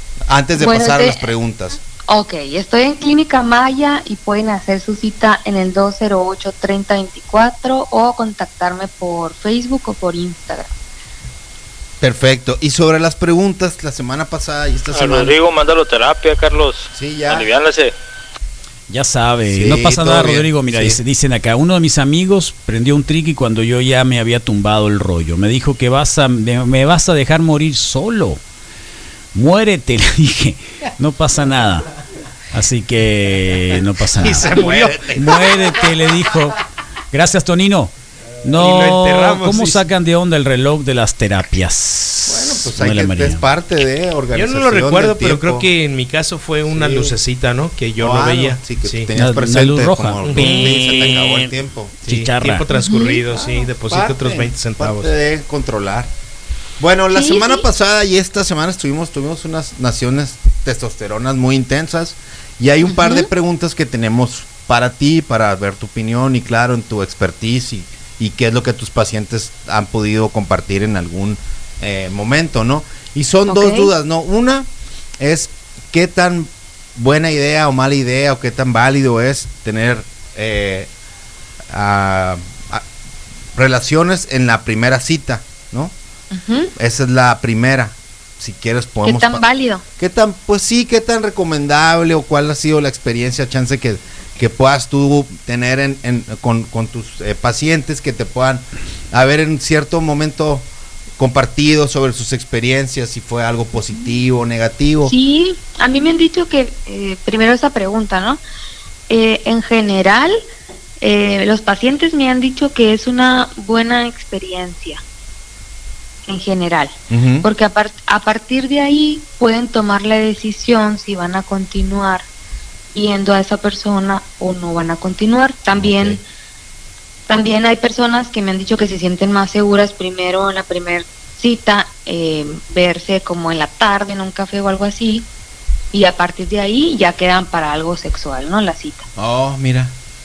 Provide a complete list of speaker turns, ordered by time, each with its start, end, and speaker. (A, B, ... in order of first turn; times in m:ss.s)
0:00.3-0:01.8 A
0:00.6-0:01.3 B
0:02.1-0:10.7 B
0:12.0-0:15.4 A
0:14.9-0:17.9 C
0:16.9-0:17.5 A
0:18.9-0:28.4 D
0:19.5-0:21.0 A
0:29.3-0:31.9 D
0:32.5-0:43.4 D
0:34.2-0:35.1 E
0:34.2-0:35.9 A
0:38.6-0:39.8 E
0:42.3-0:45.7 A
0:44.3-0:49.1 E
0:46.7-0:47.2 A
0:48.0-0:52.1 A
0:49.2-0:52.6 D
0:50.2-0:51.0 E
0:52.1-0:55.1 E
0:52.7-0:53.2 B
0:53.3-0:56.1 A
0:56.8-1:14.7 A
0:57.1-0:57.7 B
1:02.8-1:03.3 B
1:13.5-1:13.9 B
1:15.2-1:20.9 A
1:21.7-1:22.8 A
1:23.6-1:25.9 A
1:26.3-1:26.7 B
1:26.8-1:29.4 A
1:29.0-1:29.8 B
1:30.0-1:40.7 A
1:41.2-1:45.1 A
1:45.0-1:48.4 B
1:49.1-1:50.4 B
1:51.0-1:55.0 B
1:56.3-2:02.3 B
1:57.1-1:57.5 A
2:02.9-2:06.2 B
2:05.7-2:06.2 A
2:07.3-2:15.3 B
2:15.9-2:19.1 B
2:19.2-2:19.9 A